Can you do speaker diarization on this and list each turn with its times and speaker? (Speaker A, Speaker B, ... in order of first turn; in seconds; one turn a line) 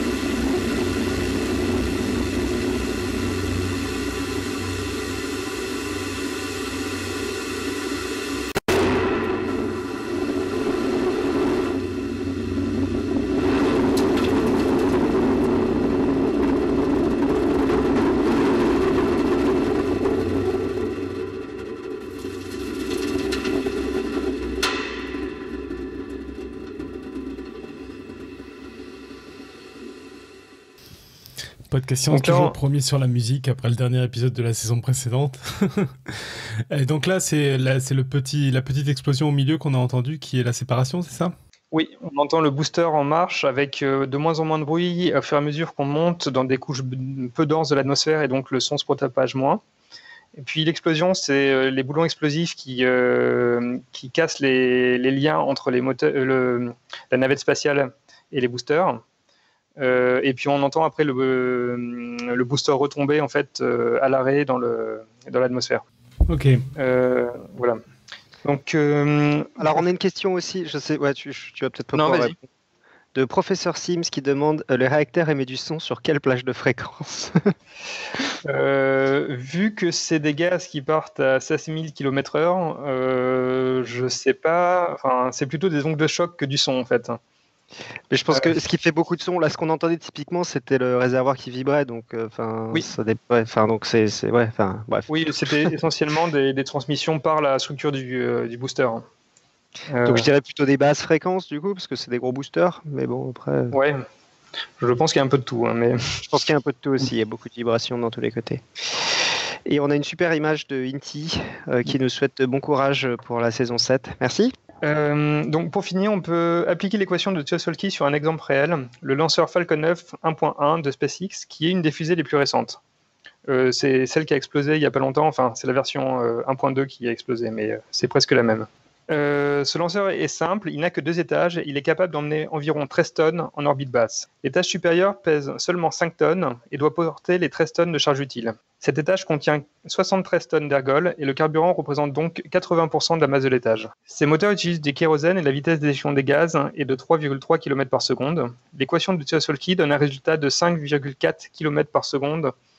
Speaker A: 31.7-41.3
Speaker B: 32.1-32.5
Speaker B: 41.7-49.6
Speaker B: 50.4-59.0
Speaker B: 59.8-65.8
Speaker A: 66.3-66.6
Speaker B: 66.8-67.8
Speaker B: 68.4-69.8
Speaker C: 69.6-72.4
Speaker B: 71.9-72.3
Speaker C: 73.1-77.5
Speaker B: 78.4-87.2
Speaker C: 88.1-95.7
Speaker B: 95.1-99.0
Speaker B: 99.9-100.3
Speaker C: 100.0-103.7
Speaker B: 103.7-104.0
Speaker B: 104.8-106.0
Speaker C: 106.2-108.6
Speaker C: 109.7-114.5
Speaker B: 114.8-122.8
Speaker B: 123.5-152.5